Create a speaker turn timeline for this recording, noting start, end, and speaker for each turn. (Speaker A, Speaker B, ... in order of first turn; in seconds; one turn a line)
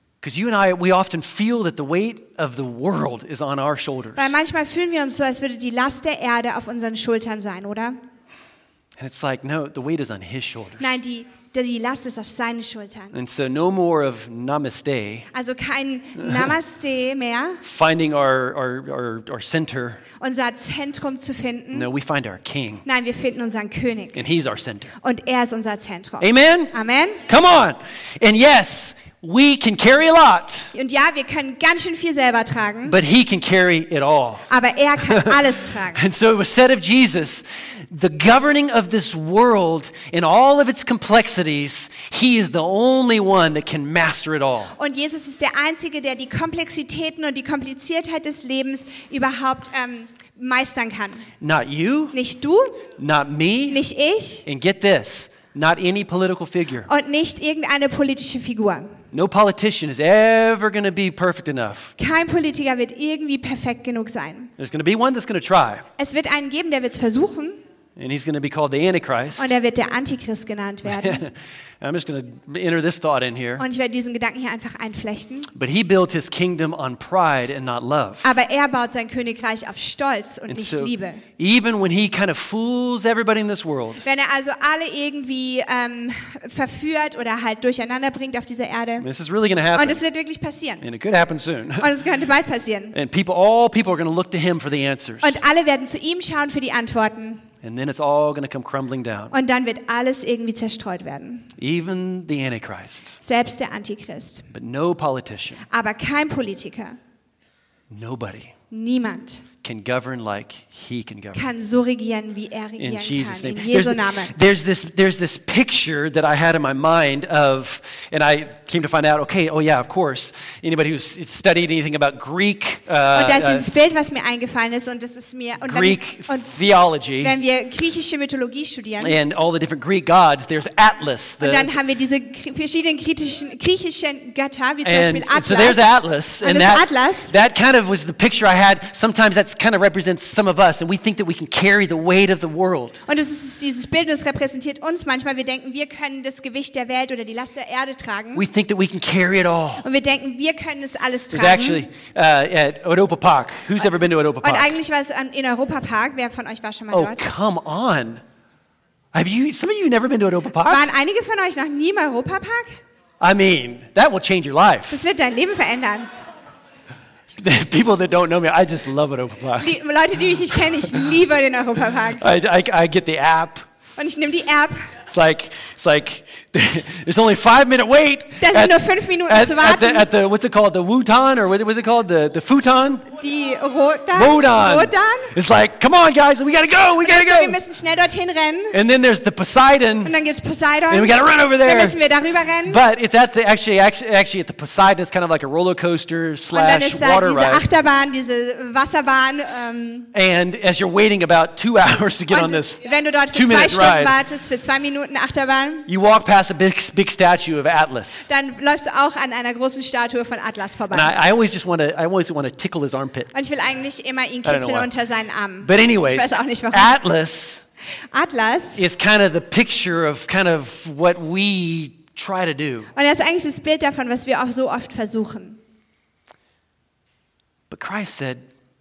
Speaker A: 0.2-4.3
Speaker B: 4.2-8.0
Speaker A: 9.0-11.0
Speaker B: 10.8-13.1
Speaker A: 13.1-15.3
Speaker B: 15.3-17.6
Speaker A: 16.2-16.5
Speaker A: 17.6-20.0
Speaker B: 20.2-21.9
Speaker A: 21.7-22.8
Speaker B: 22.8-24.2
Speaker A: 24.1-24.9
Speaker B: 25.0-27.2
Speaker A: 26.2-26.7
Speaker A: 27.2-30.7
Speaker B: 30.7-33.0
Speaker A: 32.8-34.5
Speaker B: 34.5-36.0
Speaker A: 35.0-35.4
Speaker A: 35.9-44.7
Speaker B: 44.8-51.2
Speaker A: 51.4-52.2
Speaker B: 52.1-52.8
Speaker A: 53.0-53.8
Speaker B: 53.7-54.4
Speaker A: 54.4-56.9
Speaker B: 56.9-58.9
Speaker A: 59.1-61.9
Speaker B: 62.0-64.5
Speaker A: 64.6-65.8
Speaker B: 66.0-67.6
Speaker A: 68.0-69.5
Speaker B: 69.4-71.2
Speaker A: 70.9-73.6
Speaker B: 73.6-75.5
Speaker A: 75.5-78.3
Speaker B: 78.2-81.2
Speaker A: 80.5-84.0
Speaker B: 84.0-89.0
Speaker A: 89.0-90.0
Speaker B: 89.7-90.8
Speaker A: 90.8-91.9
Speaker B: 91.8-92.9
Speaker A: 92.9-95.4
Speaker B: 95.2-97.4
Speaker A: 97.6-99.3
Speaker B: 99.3-101.5
Speaker A: 101.6-103.2
Speaker B: 103.2-104.5
Speaker A: 104.5-105.7
Speaker B: 105.7-107.0
Speaker A: 107.9-108.5
Speaker B: 108.7-109.5
Speaker A: 109.6-111.4
Speaker B: 111.3-114.3
Speaker A: 112.8-123.7
Speaker B: 123.1-126.5
Speaker A: 125.6-127.3
Speaker B: 127.2-129.1
Speaker A: 129.0-131.7
Speaker B: 131.4-135.8
Speaker A: 134.8-143.0
Speaker B: 136.4-137.3
Speaker B: 143.1-148.4
Speaker A: 148.3-149.8
Speaker B: 149.8-151.8
Speaker A: 151.3-154.7
Speaker B: 154.4-157.2
Speaker A: 156.9-158.2
Speaker A: 159.1-160.9
Speaker B: 160.7-162.8
Speaker A: 163.2-165.0
Speaker B: 164.9-166.1
Speaker A: 167.4-169.8
Speaker B: 169.6-172.3
Speaker A: 172.2-173.6
Speaker B: 174.0-174.9
Speaker A: 175.0-183.1
Speaker B: 178.4-180.1
Speaker B: 183.2-185.3
Speaker A: 184.1-187.6
Speaker B: 187.0-188.8
Speaker A: 188.7-190.1
Speaker B: 190.0-192.8
Speaker A: 190.9-192.0
Speaker A: 192.6-197.6
Speaker B: 196.5-200.1
Speaker A: 200.1-202.8
Speaker B: 202.3-205.9
Speaker A: 203.3-204.2
Speaker A: 205.9-208.3
Speaker B: 208.3-211.1
Speaker A: 210.9-213.3
Speaker B: 213.3-216.9
Speaker A: 214.4-214.9
Speaker A: 215.6-217.6
Speaker B: 218.1-218.8
Speaker A: 218.8-222.9
Speaker B: 222.9-225.6
Speaker A: 227.7-228.4